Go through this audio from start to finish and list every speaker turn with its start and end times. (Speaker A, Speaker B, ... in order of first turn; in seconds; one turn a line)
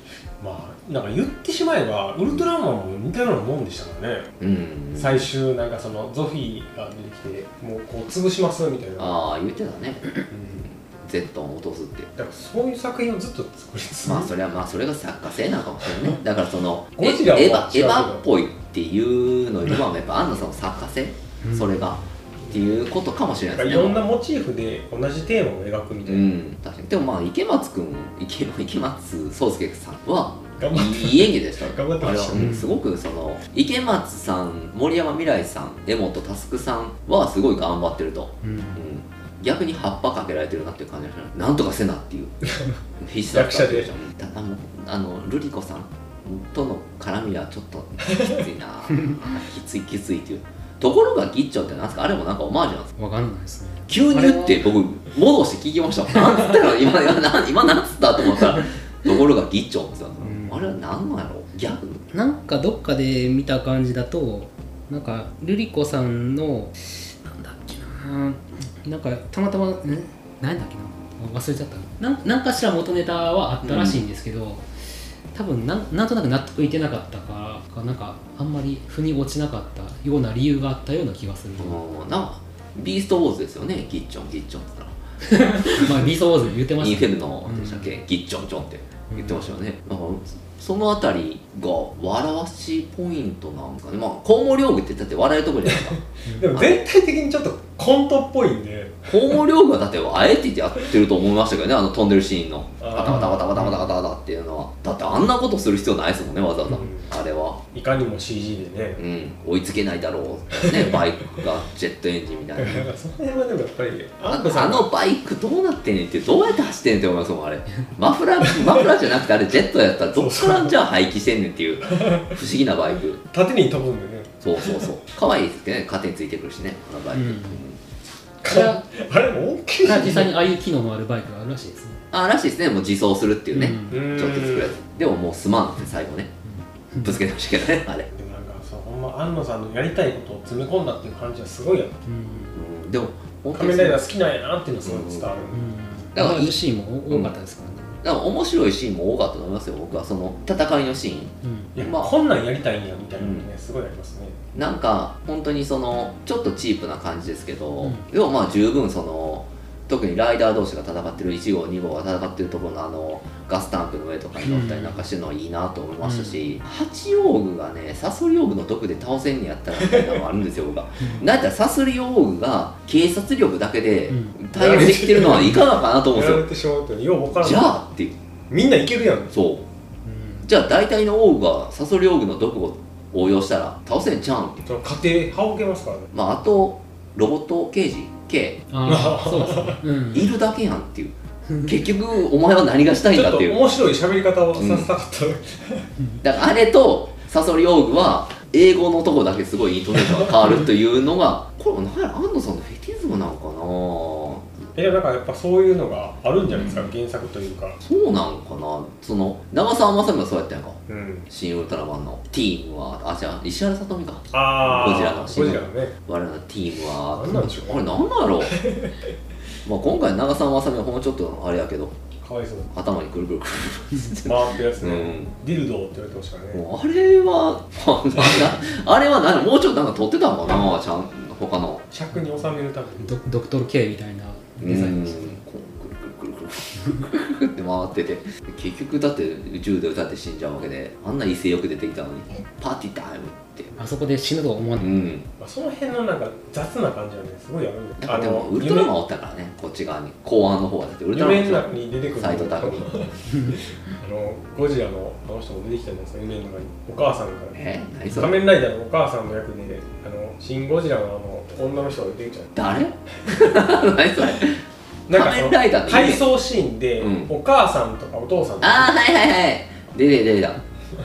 Speaker A: 0.4-4.3
Speaker B: 4.4-5.2
Speaker A: 4.9-9.2
Speaker B: 9.0-10.1
Speaker A: 10.3-10.7
Speaker B: 10.9-12.1
Speaker A: 12.2-14.3
Speaker B: 14.1-24.0
Speaker A: 17.0-18.2
Speaker C: 21.4-21.9
Speaker A: 23.5-26.3
Speaker B: 26.1-42.4
Speaker A: 30.6-32.6
Speaker C: 32.3-32.7
Speaker C: 38.4-38.9
Speaker A: 42.5-42.8
Speaker B: 43.0-52.9
Speaker A: 43.3-43.9
Speaker C: 53.0-54.6
Speaker B: 53.9-62.0
Speaker C: 56.2-56.5
Speaker C: 60.2-60.7
Speaker C: 62.1-74.7
Speaker B: 73.6-74.0
Speaker C: 75.3-81.8
Speaker B: 81.6-85.0
Speaker C: 85.2-88.0
Speaker B: 86.8-96.0
Speaker C: 89.1-89.5
Speaker A: 95.7-99.4
Speaker C: 96.3-96.5
Speaker B: 96.5-96.8
Speaker B: 99.1-107.6
Speaker A: 102.8-103.5
Speaker C: 103.0-103.9
Speaker A: 106.7-107.1
Speaker A: 107.7-109.0
Speaker B: 109.0-112.8
Speaker A: 110.5-111.0
Speaker A: 112.6-114.9
Speaker B: 114.3-123.2
Speaker A: 118.4-118.9
Speaker A: 120.1-120.8
Speaker A: 121.9-122.4
Speaker A: 123.3-124.9
Speaker B: 124.4-127.8
Speaker C: 127.1-127.6
Speaker A: 128.4-130.3
Speaker C: 128.4-128.8
Speaker C: 129.8-132.0
Speaker B: 132.1-136.3
Speaker C: 133.5-134.1
Speaker A: 133.9-134.8
Speaker C: 136.4-137.2
Speaker B: 137.0-138.1
Speaker A: 138.1-142.0
Speaker C: 142.1-142.6
Speaker B: 142.5-144.0
Speaker A: 143.5-145.6
Speaker B: 144.9-145.3
Speaker C: 145.5-148.0
Speaker B: 146.2-146.6
Speaker B: 147.1-147.3
Speaker B: 148.0-152.1
Speaker C: 151.4-151.7
Speaker A: 151.8-154.4
Speaker B: 153.2-153.5
Speaker B: 154.5-176.5
Speaker C: 157.8-158.1
Speaker C: 164.4-165.0
Speaker C: 166.0-166.6
Speaker A: 169.8-170.2
Speaker C: 171.0-171.2
Speaker C: 174.1-174.4
Speaker A: 174.5-177.8
Speaker B: 177.4-178.2
Speaker A: 178.5-179.3
Speaker B: 179.3-179.7
Speaker C: 180.1-180.5
Speaker B: 180.4-184.7
Speaker A: 184.7-186.1
Speaker B: 186.1-188.6
Speaker C: 188.7-190.3
Speaker A: 188.8-189.8
Speaker B: 190.1-193.6
Speaker A: 193.1-195.9
Speaker B: 194.6-194.9
Speaker B: 196.2-204.6
Speaker A: 204.8-207.8
Speaker B: 207.8-218.6
Speaker A: 210.9-211.3
Speaker A: 214.3-215.9
Speaker A: 217.1-219.0
Speaker B: 219.7-222.0
Speaker A: 222.2-222.7
Speaker B: 222.7-225.3
Speaker A: 224.2-226.7
Speaker B: 226.5-231.8
Speaker A: 231.9-233.1
Speaker C: 233.0-235.4
Speaker B: 234.6-243.7
Speaker C: 243.8-244.9
Speaker B: 244.8-245.3
Speaker A: 245.4-248.9
Speaker B: 248.0-252.9
Speaker A: 251.1-262.6
Speaker C: 253.3-253.6
Speaker B: 257.5-258.4
Speaker B: 262.6-266.2
Speaker A: 265.1-268.9
Speaker B: 267.0-267.3
Speaker B: 268.6-270.6